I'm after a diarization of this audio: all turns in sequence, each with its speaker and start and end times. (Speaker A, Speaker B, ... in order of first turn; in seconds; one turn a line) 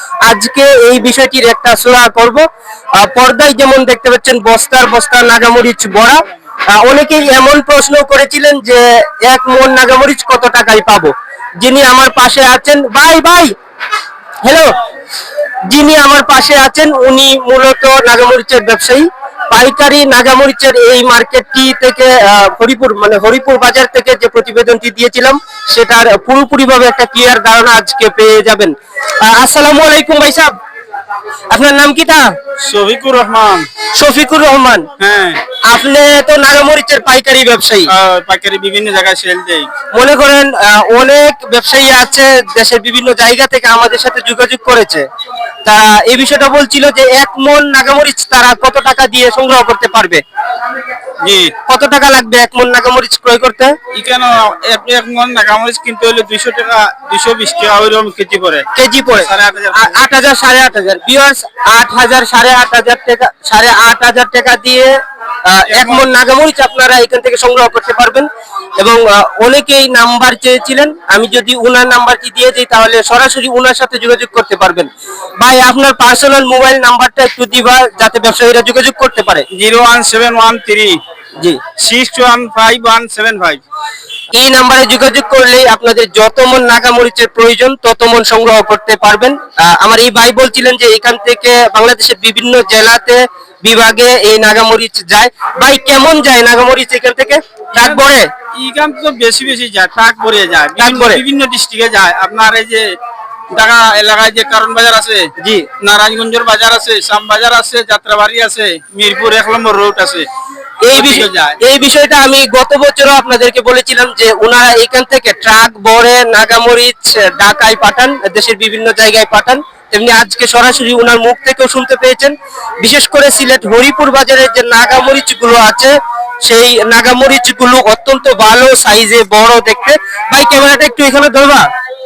Speaker A: 0.2-2.4
Speaker A: 3.0-6.2
Speaker A: 6.7-13.5
Speaker A: 14.4-14.7
Speaker A: 15.7-30.5
Speaker A: 31.5-32.3
Speaker B: 32.6-33.7
Speaker A: 34.0-34.8
Speaker B: 35.0-35.4
Speaker A: 35.6-37.9
Speaker B: 37.9-39.7
Speaker A: 39.9-45.0
Speaker A: 45.6-50.2
Speaker B: 51.2-51.5
Speaker A: 51.7-53.7
Speaker B: 53.9-60.0
Speaker A: 58.7-64.9
Speaker A: 65.5-68.3
Speaker B: 65.7-66.0
Speaker A: 68.8-79.4
Speaker B: 79.5-81.0
Speaker B: 81.8-83.6
Speaker A: 84.3-98.3
Speaker B: 97.8-103.0
Speaker A: 100.8-101.2
Speaker B: 103.5-110.3
Speaker A: 105.4-105.7
Speaker A: 110.8-125.9
Speaker B: 110.9-111.6
Speaker A: 126.4-131.7